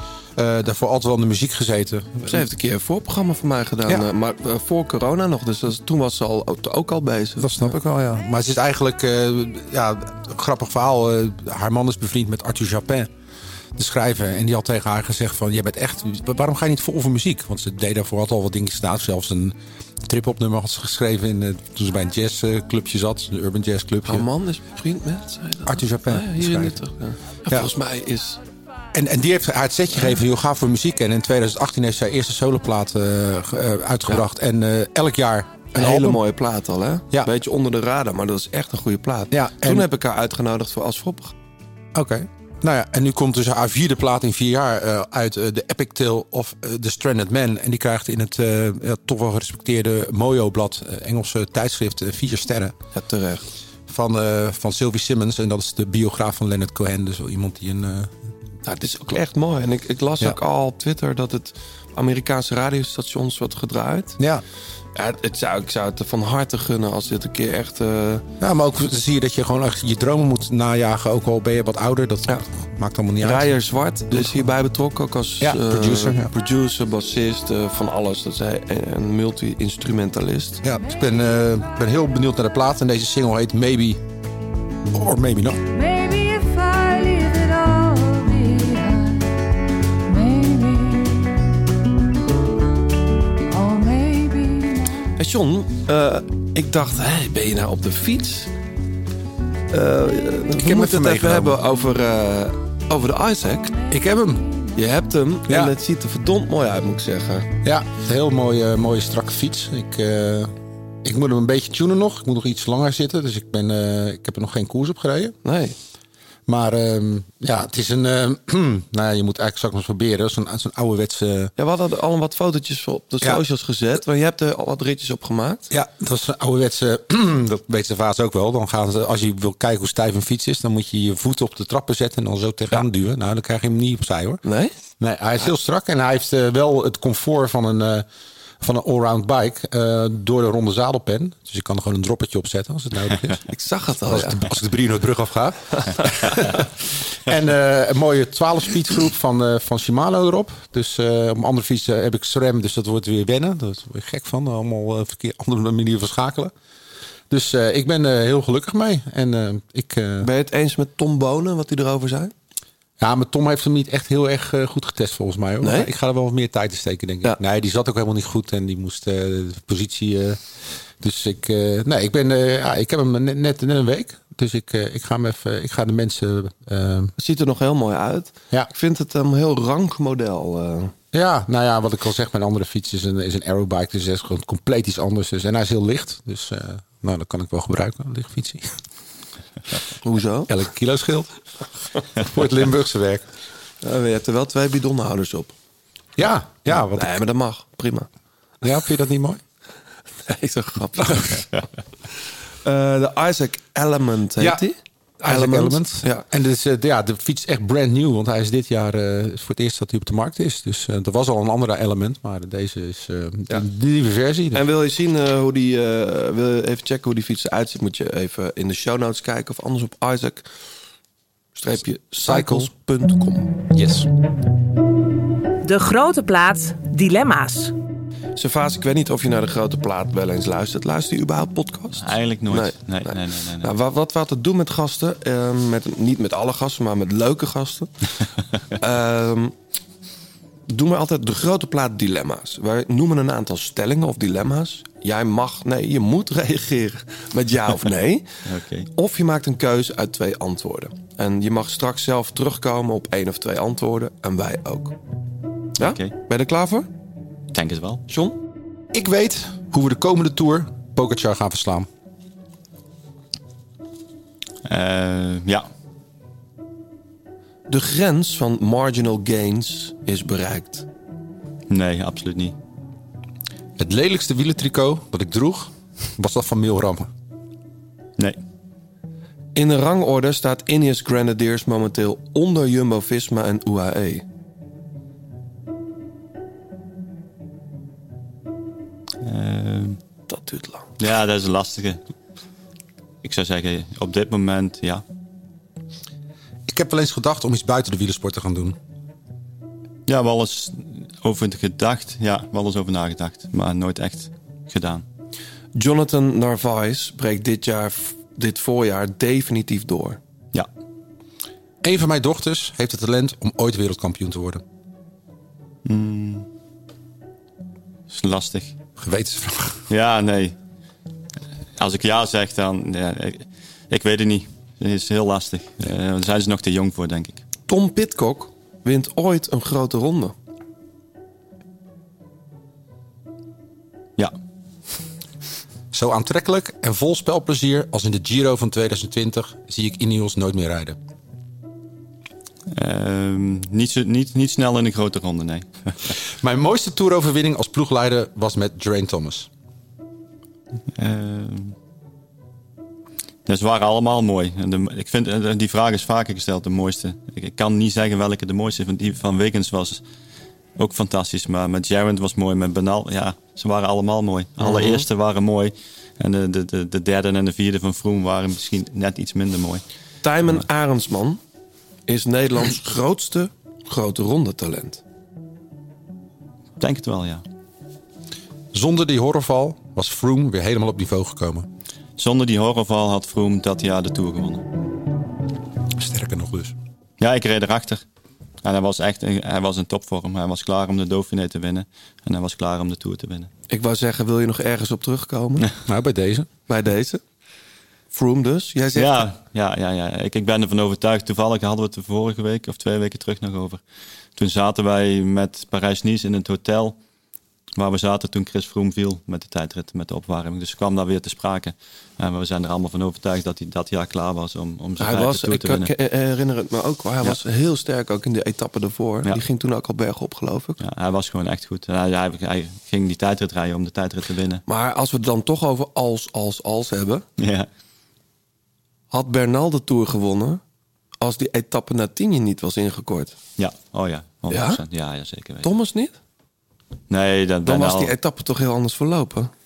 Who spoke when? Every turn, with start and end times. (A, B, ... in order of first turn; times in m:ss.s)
0:00.4-0:02.5 A
0:02.3-0:07.6 B
0:07.4-0:13.1 A
0:13.8-0:24.3 A
0:24.0-0:28.4 B
0:25.7-0:26.8 A
0:28.9-0:36.2 A
0:35.8-0:41.3 B
0:39.3-0:39.9 A
0:41.9-0:52.8 A
0:52.9-0:53.4 B
0:53.9-0:58.1 A
0:58.6-1:04.2 B
1:04.2-1:04.4 A
1:05.0-1:08.2 B
1:08.4-1:13.5 A
1:13.2-1:20.6 B
1:14.1-1:14.4 A
1:15.4-1:16.3 A
1:20.6-1:24.0 A
1:24.9-1:25.6 A
1:25.7-1:29.4 C
1:30.0-1:31.5 C
1:33.5-1:35.1 C
1:35.2-1:38.5 B
1:39.7-1:43.8 B
1:40.6-1:41.6 A
1:43.9-1:44.5 A
1:44.3-1:44.7 C
1:44.8-1:47.5 B
1:45.5-1:45.7 A
1:47.6-1:50.5 A
1:51.0-1:55.4 A
1:55.4-1:55.8 B
1:56.5-2:01.5 A
2:01.6-2:05.7 B
2:05.7-2:14.4 A
2:14.4-2:14.7 B
2:15.0-2:18.1 A
2:18.6-2:23.4 A
2:23.5-2:24.4 B
2:24.0-2:36.5 A
2:37.3-2:40.3 A
2:40.2-2:42.3 B
2:43.0-2:50.4 A
2:45.6-2:45.9 B
2:51.0-2:57.1 A
2:57.2-3:00.9 B
3:01.1-3:08.7 A
3:10.0-3:10.5 B
3:10.5-3:11.3 A
3:12.2-3:13.2 A
3:13.8-3:15.5 B
3:16.2-3:17.2 A
3:16.7-3:18.1 B
3:18.6-3:19.4 A
3:20.3-3:21.5 B
3:22.6-3:26.2 B
3:25.2-3:34.6 A
3:34.5-3:40.5 B
3:41.6-3:43.6 B
3:42.2-3:42.7 A
3:43.7-3:44.1 A
3:45.6-3:47.7 D
3:48.4-3:57.9 B
3:52.0-3:53.7 E
3:58.8-3:59.5 B
4:00.7-4:08.3 B
4:08.5-4:08.9 E
4:08.9-4:15.0 B
4:15.8-4:16.9 B
4:15.8-4:16.1 E
4:17.5-4:18.0 E
4:18.1-4:18.4 B
4:18.9-4:21.9 A
4:24.6-4:25.7 E
4:27.7-4:30.9 B
4:31.7-4:32.6 E
4:33.8-4:37.1 A
4:39.6-4:44.2 B
4:49.2-4:50.0 E
4:50.3-4:50.9 B
4:51.0-4:52.0 E
4:53.2-4:55.0 E
4:56.7-4:58.8 A
5:00.1-5:05.0 E
5:05.8-5:10.2 B
5:11.8-5:14.6 A
5:15.8-5:16.5 E
5:18.1-5:18.8 E
5:19.0-5:19.8 A
5:19.9-5:20.6 E
5:21.8-5:27.4 E
5:27.7-5:30.3 B
5:35.9-5:41.0 A
5:42.7-5:46.1 E
5:46.4-5:49.5 A
5:51.0-5:51.8 E
5:53.5-6:00.0 E
6:00.8-6:09.8 E
6:04.6-6:05.1 B
6:10.2-6:11.4 B
6:12.1-6:15.0 B
6:16.8-6:17.4 E
6:18.7-6:21.7 A
6:22.2-6:24.6 E
6:26.0-6:26.7 A
6:27.2-6:28.0 E
6:28.6-6:33.5 E
6:33.7-6:35.7 B
6:35.9-6:36.5 A
6:36.7-6:37.2 B
6:38.1-6:39.2 B
6:39.0-6:43.8 E
6:44.4-6:47.0 E
6:47.8-6:55.9 E
6:55.0-7:00.8 B
7:00.8-7:04.6 E
7:04.7-7:07.2 B
7:07.4-7:07.7 E
7:09.1-7:10.6 B
7:11.2-7:13.4 B
7:13.6-7:15.7 E
7:14.5-7:14.8 B
7:15.6-7:16.2 B
7:17.1-7:18.1 E
7:17.6-7:19.5 B